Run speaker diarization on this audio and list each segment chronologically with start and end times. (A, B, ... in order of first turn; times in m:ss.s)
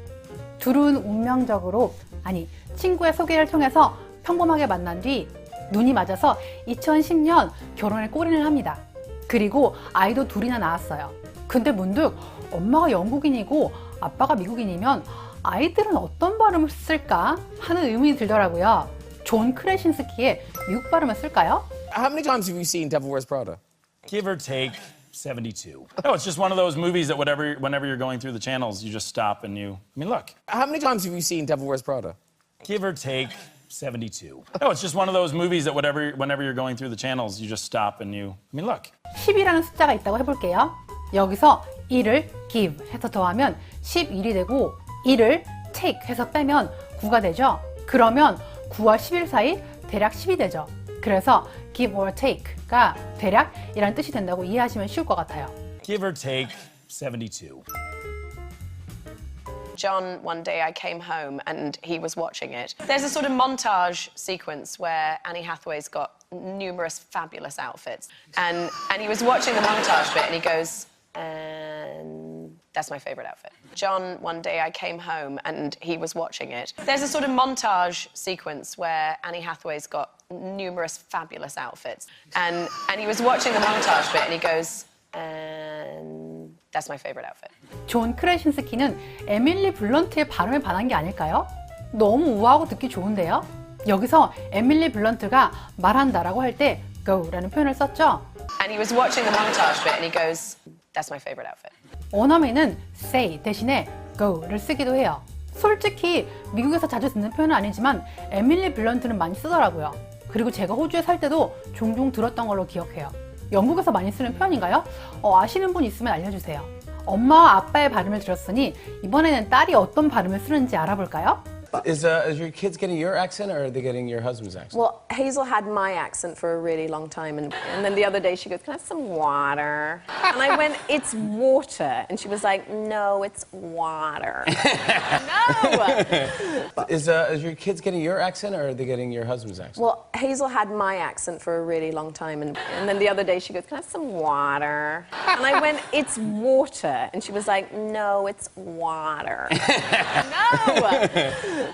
0:00.6-0:21.7 A
0:21.9-0:23.6 B
0:24.1-0:30.4 C
0:30.5-0:32.2 B
0:32.6-0:38.9 C
0:39.2-0:55.5 A
0:55.8-0:57.6 C
0:59.8-1:27.5 D
1:27.9-1:38.3 A
1:38.6-1:41.7 D
1:42.1-2:01.4 A
2:01.7-2:04.8 E
2:04.7-2:16.9 D
2:16.8-2:19.8 E
2:19.8-2:31.5 D